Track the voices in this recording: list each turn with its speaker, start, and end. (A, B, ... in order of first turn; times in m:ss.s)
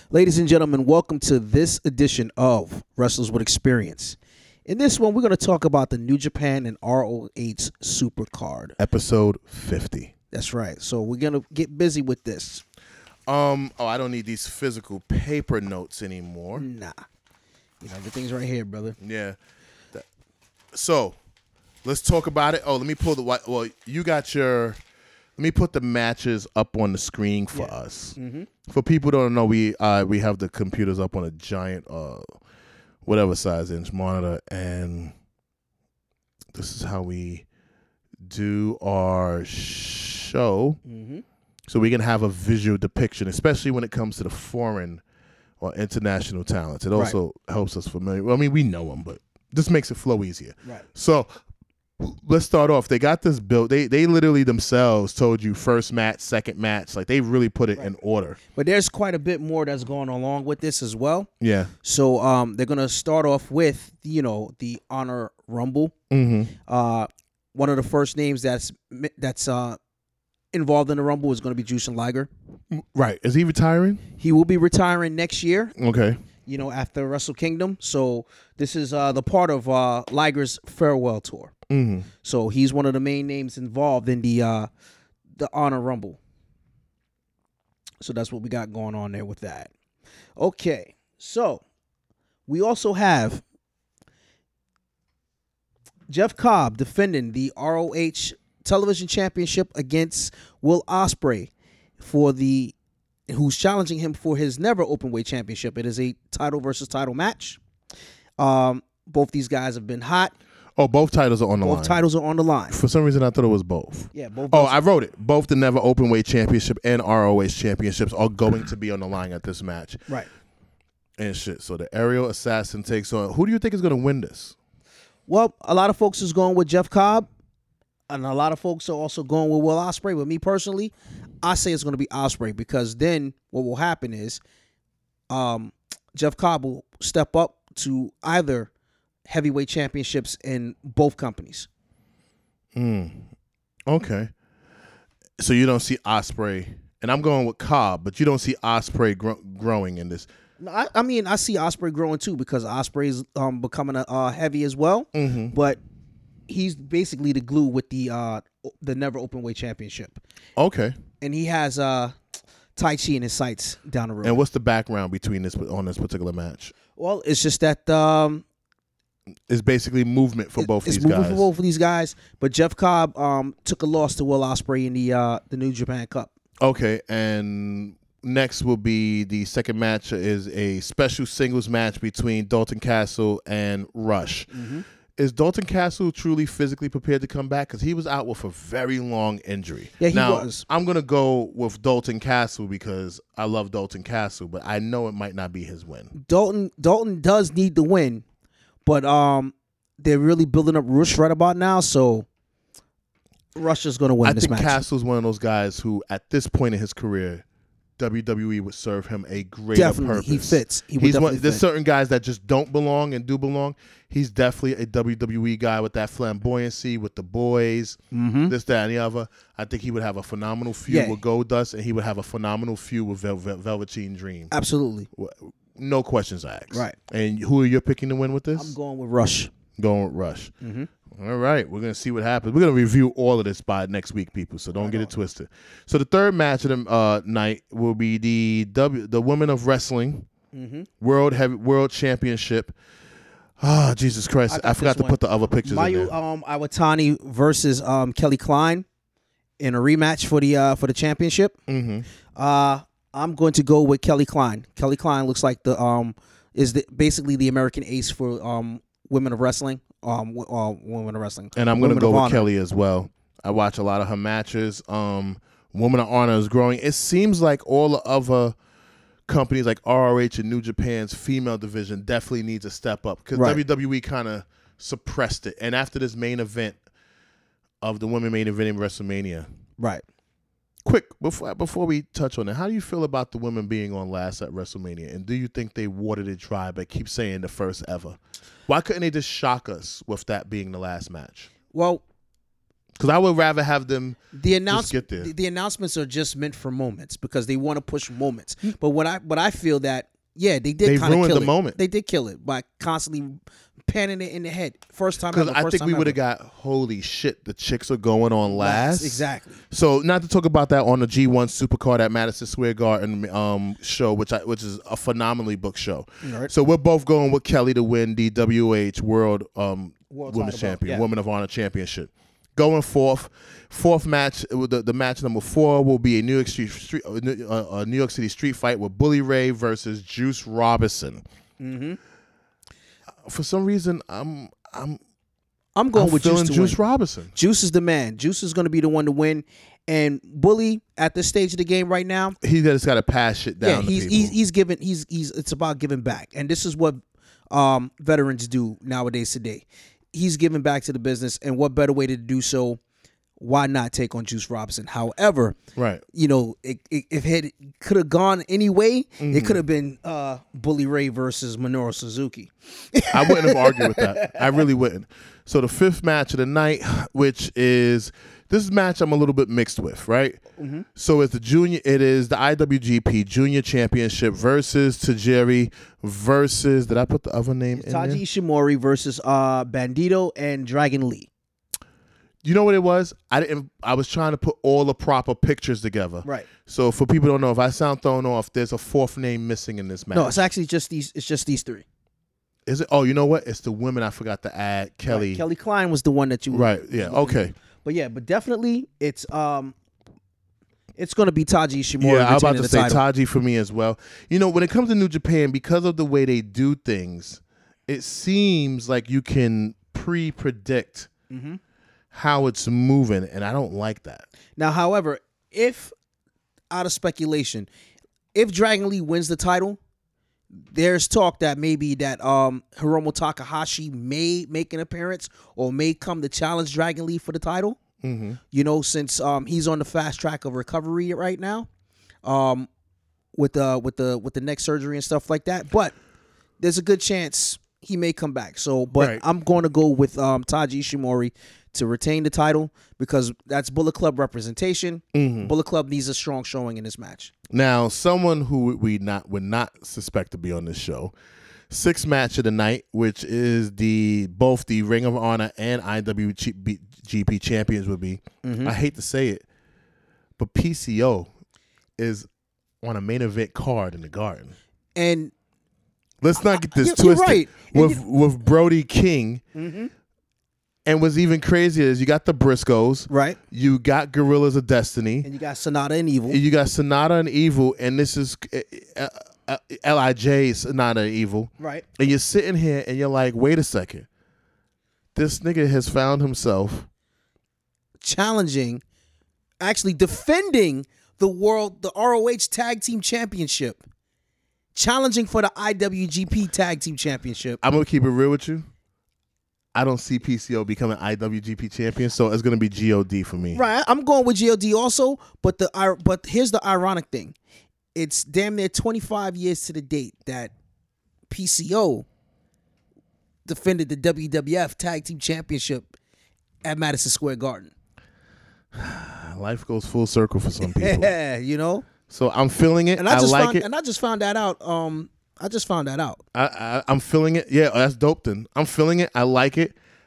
0:00.1-0:08.8 A
0:08.8-0:10.1 B
0:10.3-0:12.6 A
0:13.3-0:16.7 B
0:16.6-0:17.0 A
0:17.8-0:19.0 A
0:19.0-0:19.4 B
0:20.7-0:21.2 B
0:21.8-0:24.8 B
0:25.4-0:32.3 B
0:27.5-0:28.5 A
0:33.0-0:35.1 B
0:36.5-0:37.4 B
0:38.3-0:40.8 B
0:40.9-0:41.2 A
0:41.7-0:45.0 B
0:45.6-0:51.3 B
0:52.0-0:58.4 B
0:58.5-1:01.3 A
1:01.4-1:01.7 B
1:01.8-1:05.9 A
1:06.1-1:06.6 B
1:06.7-1:09.8 A
1:10.5-1:12.3 A
1:12.7-1:14.1 B
1:14.2-1:15.7 A
1:15.8-1:16.2 B
1:16.4-1:21.5 A
1:21.7-1:22.1 B
1:22.2-1:24.7 A
1:25.4-1:26.2 A
1:28.0-1:29.7 A
1:30.4-1:31.6 A
1:32.5-1:33.4 A
1:36.1-1:42.7 A
1:43.3-1:47.6 A
1:48.4-1:50.4 A
1:50.8-1:52.0 B
1:51.6-1:52.8 A
1:52.7-2:00.0 B
1:54.1-1:54.8 A
2:01.2-2:04.6 B
2:05.3-2:07.3 A
2:08.1-2:14.4 A
2:15.3-2:18.7 A
2:19.3-2:21.7 A
2:22.8-2:23.3 B
2:23.9-2:24.3 B
2:25.4-2:30.3 B
2:30.6-2:35.8 A
2:35.1-2:35.6 B
2:36.5-2:40.2 A
2:40.6-2:41.0 B
2:41.2-2:42.2 A
2:42.8-2:44.4 A
2:44.2-2:46.7 B
2:47.0-2:48.4 A
2:49.5-2:51.5 B
2:50.6-2:56.3 A
2:56.6-3:04.5 B
3:04.5-3:04.8 A
3:05.2-3:16.1 B
3:10.0-3:10.6 A
3:16.1-3:18.2 A
3:18.8-3:22.3 A
3:23.6-3:24.8 A
3:24.2-3:27.4 B
3:28.0-3:44.5 B
3:29.8-3:31.6 A
3:38.1-3:38.5 A
3:40.9-3:41.2 A
3:44.5-3:45.1 A
3:45.1-3:48.8 B
3:48.6-3:49.5 A
3:49.8-3:50.5 B
3:50.6-3:50.9 A
3:51.1-4:00.3 B
3:54.8-3:55.1 A
4:00.5-4:00.9 A
4:01.0-4:02.8 B
4:03.6-4:06.1 B
4:04.5-4:08.9 A
4:09.6-4:11.6 A
4:11.7-4:12.1 B
4:12.4-4:22.5 A
4:21.6-4:28.6 B
4:29.3-4:36.8 B
4:33.4-4:33.6 A
4:37.8-4:39.5 B
4:39.8-4:40.0 A
4:40.8-4:51.5 B
4:51.7-4:52.0 A
4:53.0-4:55.3 B
4:54.3-5:06.2 A
5:00.8-5:01.8 B
5:05.3-5:31.2 B
5:08.5-5:09.6 A
5:16.2-5:16.5 A
5:20.1-5:21.0 A
5:31.6-5:32.0 A
5:33.2-5:35.0 B
5:35.8-5:36.8 A
5:35.9-5:37.3 B
5:37.4-5:42.4 A
5:42.4-5:44.4 B
5:43.6-5:47.0 A
5:47.5-5:52.8 A
5:53.4-5:55.6 A
5:55.8-5:56.0 B
5:56.1-6:04.6 A
5:59.2-5:59.6 B
6:03.1-6:10.4 B
6:10.6-6:10.8 A
6:11.0-6:18.2 B
6:17.8-6:21.3 A
6:22.4-6:30.5 B
6:30.1-6:31.8 A
6:32.7-6:35.4 B
6:35.1-6:39.8 A
6:36.5-6:37.6 B
6:41.0-6:43.0 A
6:42.0-6:51.1 B
6:51.3-6:51.6 A
6:52.1-6:54.3 B
6:54.6-6:55.9 A
6:56.7-6:57.7 A
6:58.3-6:59.8 A
7:00.5-7:07.8 A
7:08.0-7:08.4 B
7:08.5-7:11.7 A
7:12.2-7:12.7 A
7:13.4-7:15.9 A
7:16.6-7:27.3 A
7:19.0-7:19.2 B
7:25.1-7:25.5 B
7:27.5-7:31.1 B
7:31.7-7:39.4 B
7:38.4-7:38.7 A
7:40.4-7:41.3 B
7:42.0-7:42.3 B
7:42.8-7:44.6 B
7:45.0-7:45.3 A
7:46.2-7:49.4 B
7:46.4-7:48.0 A
7:49.6-7:49.9 A
7:50.9-7:55.3 B
7:53.1-7:53.4 A
7:55.2-7:56.4 A
7:56.3-8:04.1 B
8:01.6-8:01.8 A
8:05.2-8:06.9 B
8:08.0-8:08.8 A
8:09.6-8:13.8 A
8:14.8-8:17.6 A
8:17.6-8:18.7 B
8:19.8-8:23.6 B
8:23.5-8:27.4 A
8:28.0-8:30.5 A
8:31.3-8:32.1 A
8:33.5-8:35.9 A
8:36.6-8:37.7 A
8:38.7-8:41.1 B
8:40.6-8:41.9 A
8:42.1-8:43.7 B
8:43.0-8:46.2 A
8:46.3-8:49.8 B